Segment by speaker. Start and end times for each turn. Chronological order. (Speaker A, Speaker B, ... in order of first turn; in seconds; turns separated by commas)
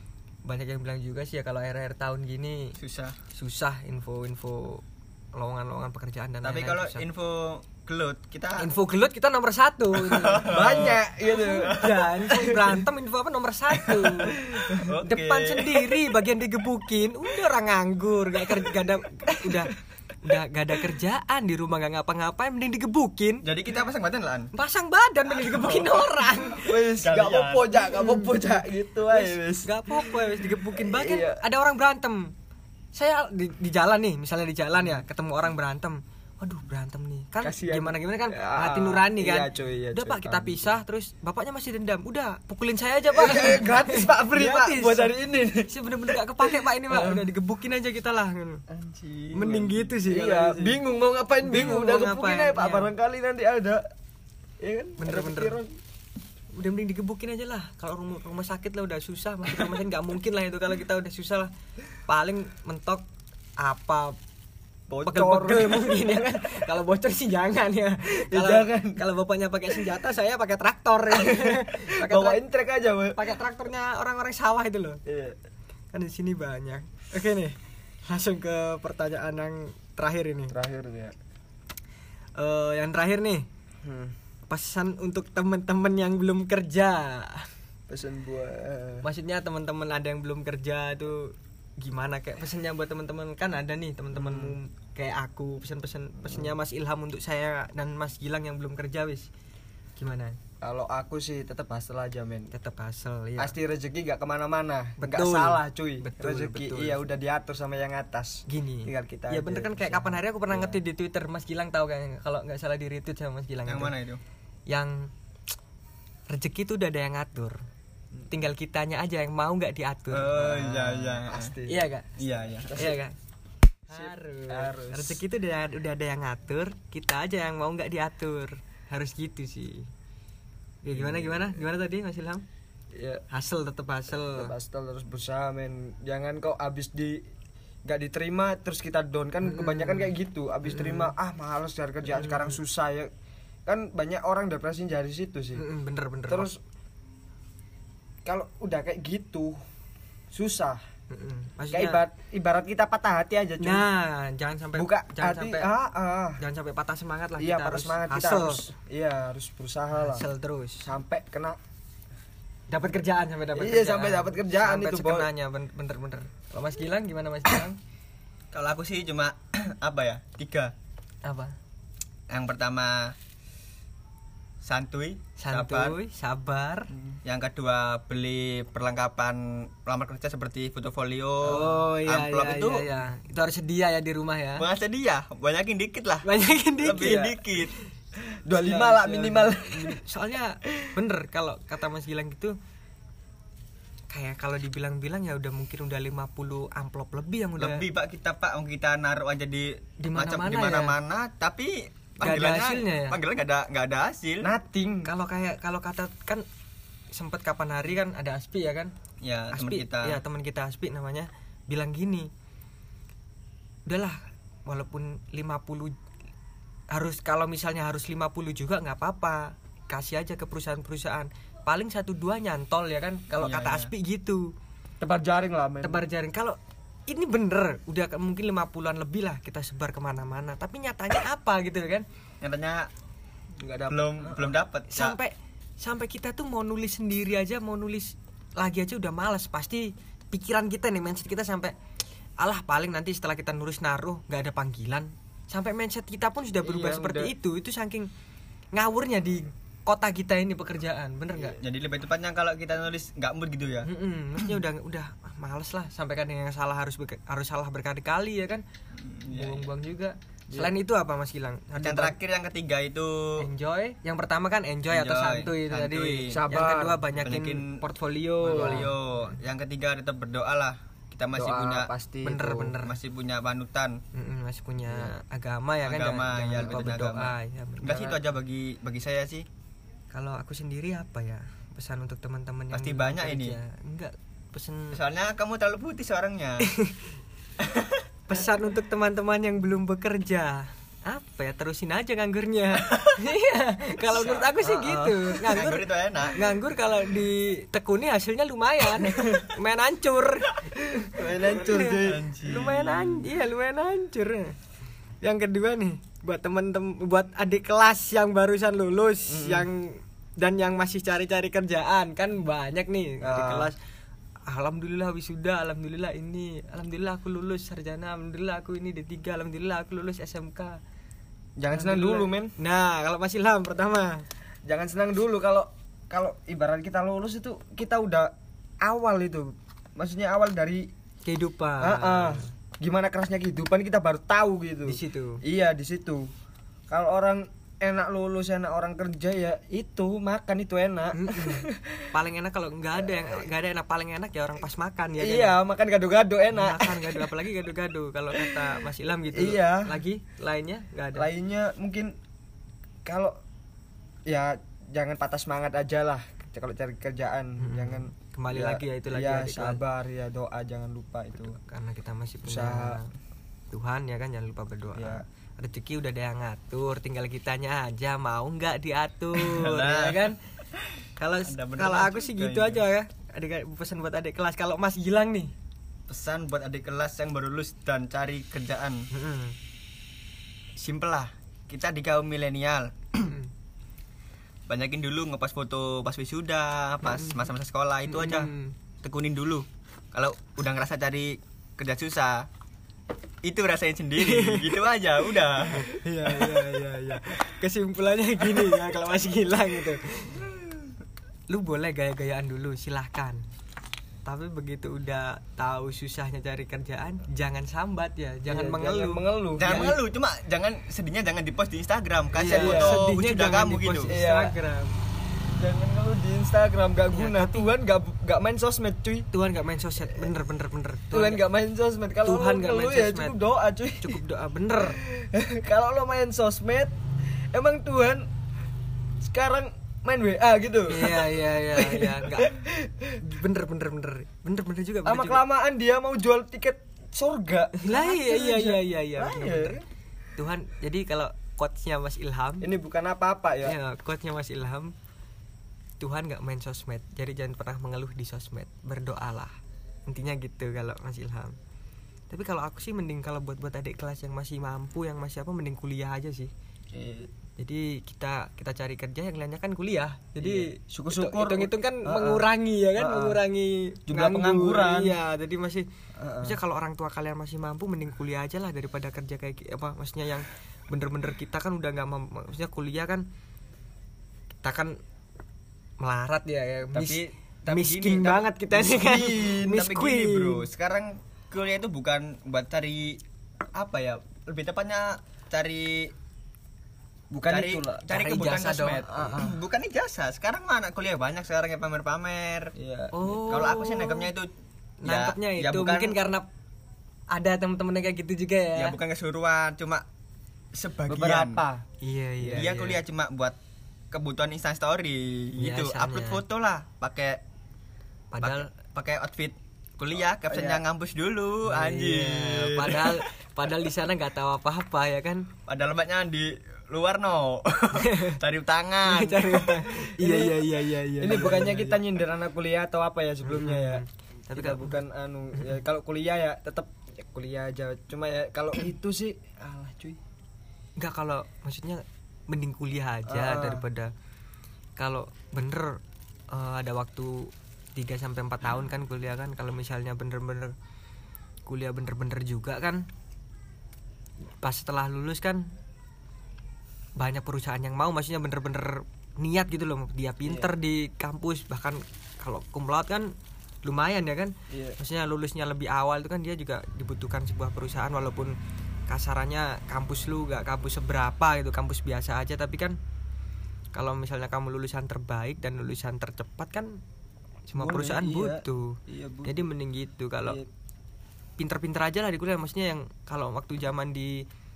Speaker A: 0.5-2.8, Speaker B: 2.8-3.2, Speaker A: 3.3-4.8, Speaker A: 5.3-7.0, Speaker B: 6.4-8.7, Speaker A: 8.6-10.5, Speaker B: 10.0-11.0, Speaker C: 10.5-12.8, Speaker A: 11.3-14.4, Speaker C: 13.9-14.8, Speaker B: 14.7-15.9, Speaker A: 15.0-23.4, Speaker B: 23.4-24.5, Speaker A: 24.5-26.8, Speaker B: 25.4-26.3, Speaker C: 26.6-31.4, Speaker B: 27.0-28.0, Speaker A: 29.1-32.3, Speaker A: 32.9-45.1, Speaker C: 37.4-40.7, Speaker C: 43.1-47.3, Speaker A: 45.6-48.6, Speaker C: 48.7-53.8, Speaker A: 49.3-50.8, Speaker A: 51.4-52.9, Speaker C: 54.6-55.7, Speaker A: 55.0-55.6, Speaker A: 56.6-61.5, Speaker A: 62.1-63.1, Speaker A: 63.6-64.2, Speaker C: 64.9-66.4, Speaker A: 65.0-72.4, Speaker C: 68.1-69.0, Speaker C: 71.1-73.3, Speaker A: 73.1-75.0, Speaker C: 75.1-75.4, Speaker A: 75.9-77.6, Speaker A: 78.1-80.5, Speaker C: 80.5-81.2, Speaker A: 82.4-83.5, Speaker C: 83.8-84.2, Speaker A: 84.5-87.5, Speaker C: 87.9-89.1, Speaker A: 89.0-99.3, Speaker C: 94.1-94.6, Speaker C: 96.2-96.6, Speaker A: 100.0-100.4, Speaker C: 100.6-102.5, Speaker A: 102.5-103.5, Speaker C: 103.4-110.8, Speaker A: 105.0-107.1, Speaker A: 108.5-113.9, Speaker B: 113.7-114.2, Speaker A: 114.7-115.1, Speaker A: 116.3-117.6, Speaker A: 118.3-120.5, Speaker B: 120.1-121.6, Speaker C: 120.3-121.9, Speaker A: 121.7-122.1, Speaker B: 122.2-122.8, Speaker C: 122.6-123.0, Speaker A: 122.8-123.1, Speaker A: 123.9-129.9, Speaker C: 123.9-125.2, Speaker A: 130.8-132.4, Speaker C: 130.9-131.6, Speaker C: 132.9-133.2, Speaker A: 133.3-134.5, Speaker C: 134.3-137.2, Speaker C: 137.8-143.1, Speaker A: 139.4-140.1, Speaker A: 140.7-141.1, Speaker A: 142.1-142.6, Speaker C: 143.7-145.6, Speaker A: 145.6-146.5, Speaker C: 146.3-146.6, Speaker C: 148.2-149.6, Speaker C: 150.3-150.8, Speaker A: 151.1-152.0, Speaker C: 151.7-153.9, Speaker A: 153.6-155.7, Speaker C: 154.8-156.4, Speaker A: 156.4-158.7, Speaker C: 157.4-160.3, Speaker A: 159.9-160.9, Speaker C: 160.8-161.6, Speaker A: 162.7-167.8, Speaker C: 163.6-165.3, Speaker B: 168.5-170.7, Speaker A: 171.2-171.6, Speaker B: 172.3-173.2, Speaker B: 174.6-176.0, Speaker A: 175.4-176.9, Speaker B: 177.2-182.8, Speaker A: 181.4-184.7, Speaker B: 184.6-186.3, Speaker A: 186.2-187.3, Speaker B: 186.8-187.8, Speaker C: 186.9-187.4, Speaker C: 188.4-190.0, Speaker A: 188.6-192.6, Speaker A: 194.1-197.9, Speaker B: 197.6-204.5, Speaker A: 200.0-200.9, Speaker A: 202.2-203.2, Speaker C: 204.4-205.1, Speaker A: 205.1-206.4, Speaker A: 207.1-208.9, Speaker B: 209.2-210.2, Speaker A: 209.5-212.3, Speaker A: 213.9-215.9, Speaker A: 216.9-224.5, Speaker B: 223.4-223.9, Speaker C: 225.0-226.0, Speaker A: 225.8-232.1, Speaker B: 232.4-232.9, Speaker C: 233.6-234.5, Speaker B: 233.9-235.2, Speaker A: 234.9-241.7, Speaker A: 242.4-248.1, Speaker C: 246.6-247.3, Speaker A: 248.7-251.6, Speaker B: 251.5-253.9, Speaker A: 253.8-258.6, Speaker B: 259.1-259.7, Speaker A: 259.2-262.1, Speaker B: 261.8-263.4, Speaker A: 263.4-269.4, Speaker B: 264.9-266.4, Speaker C: 266.3-267.1, Speaker B: 267.2-267.8, Speaker C: 268.4-268.9, Speaker B: 268.4-271.9, Speaker C: 271.4-272.7, Speaker A: 272.2-273.0, Speaker B: 272.8-274.0, Speaker A: 274.1-278.1, Speaker B: 275.9-279.4, Speaker C: 277.9-278.2, Speaker A: 280.1-285.0, Speaker B: 282.7-283.6, Speaker B: 284.9-286.7, Speaker A: 286.6-287.1, Speaker B: 287.6-288.1, Speaker A: 288.3-304.6, Speaker C: 294.6-295.6, Speaker B: 295.5-296.4, Speaker C: 301.0-302.3, Speaker B: 301.7-303.3, Speaker A: 305.2-313.8, Speaker C: 309.3-309.7, Speaker C: 313.2-313.7, Speaker A: 314.5-320.8, Speaker C: 321.6-322.5, Speaker A: 321.7-324.2, Speaker C: 324.7-330.9, Speaker A: 331.2-332.5, Speaker C: 331.8-336.3, Speaker A: 334.9-335.4, Speaker C: 336.9-342.1, Speaker A: 341.1-345.6, Speaker C: 343.0-343.4, Speaker C: 345.2-347.3, Speaker A: 346.5-351.3, Speaker C: 348.4-348.6, Speaker C: 349.3-350.0, Speaker C: 351.1-352.1, Speaker C: 353.1-353.3, Speaker C: 354.3-361.6, Speaker A: 357.6-359.8, Speaker A: 361.4-363.1, Speaker C: 362.4-363.0, Speaker A: 363.7-370.4, Speaker C: 364.9-365.2, Speaker B: 369.4-372.9, Speaker A: 371.2-375.5, Speaker B: 376.1-379.1, Speaker A: 379.1-379.6, Speaker B: 380.8-383.4, Speaker A: 383.2-383.5, Speaker B: 384.7-388.5, Speaker A: 387.1-387.5, Speaker A: 388.1-388.8, Speaker B: 389.0-392.5, Speaker B: 393.4-395.8, Speaker A: 394.2-394.8, Speaker A: 395.7-400.5, Speaker C: 396.3-396.7, Speaker A: 401.5-403.4, Speaker A: 404.3-410.0, Speaker C: 408.5-410.0, Speaker B: 409.6-414.1, Speaker A: 412.4-414.9, Speaker C: 412.5-413.1, Speaker C: 414.1-414.6, Speaker C: 415.5-419.3, Speaker A: 417.1-417.6, Speaker A: 419.3-421.4, Speaker C: 420.1-420.3, Speaker C: 421.1-424.1, Speaker A: 422.2-423.4, Speaker A: 424.0-425.0, Speaker C: 425.0-428.3, Speaker C: 429.2-433.2, Speaker A: 430.9-432.5, Speaker A: 433.2-435.4, Speaker C: 435.1-439.8, Speaker A: 437.8-439.8, Speaker A: 440.4-442.7, Speaker C: 442.6-443.7, Speaker A: 443.6-444.9, Speaker A: 446.0-449.5, Speaker A: 450.1-451.6, Speaker A: 452.3-456.5, Speaker C: 456.9-457.3, Speaker A: 457.6-465.9, Speaker C: 460.4-463.4, Speaker C: 464.1-465.2, Speaker C: 466.2-466.6, Speaker A: 466.4-473.3, Speaker A: 474.6-475.0, Speaker A: 476.0-480.7, Speaker B: 476.9-483.2, Speaker C: 478.9-479.5, Speaker B: 483.7-486.1, Speaker C: 487.3-488.1, Speaker B: 487.4-492.7, Speaker A: 488.1-489.2, Speaker C: 489.1-489.6, Speaker C: 492.8-493.3, Speaker A: 493.1-494.3, Speaker B: 493.3-494.5, Speaker A: 495.0-496.5, Speaker B: 495.1-496.2, Speaker A: 497.3-499.0, Speaker B: 498.8-500.1, Speaker B: 500.7-501.6, Speaker C: 501.1-501.8, Speaker A: 502.0-503.0, Speaker B: 502.4-503.6, Speaker B: 504.1-507.4, Speaker A: 505.6-506.4, Speaker A: 508.3-508.7, Speaker B: 508.4-513.2, Speaker C: 510.5-510.8, Speaker A: 511.6-515.5, Speaker B: 515.7-519.9, Speaker A: 518.0-518.4, Speaker A: 519.1-522.0, Speaker C: 520.2-520.6, Speaker C: 521.2-530.2, Speaker A: 523.5-525.0, Speaker A: 531.0-534.1, Speaker C: 533.3-533.9, Speaker A: 535.0-536.0, Speaker A: 536.5-540.7, Speaker A: 541.7-543.1, Speaker A: 544.6-545.7, Speaker A: 547.2-553.3, Speaker C: 550.4-550.7, Speaker A: 553.8-558.6, Speaker C: 554.7-555.0, Speaker A: 559.1-563.0, Speaker A: 563.9-567.0, Speaker A: 567.7-570.6, Speaker C: 567.8-569.7, Speaker A: 571.6-574.5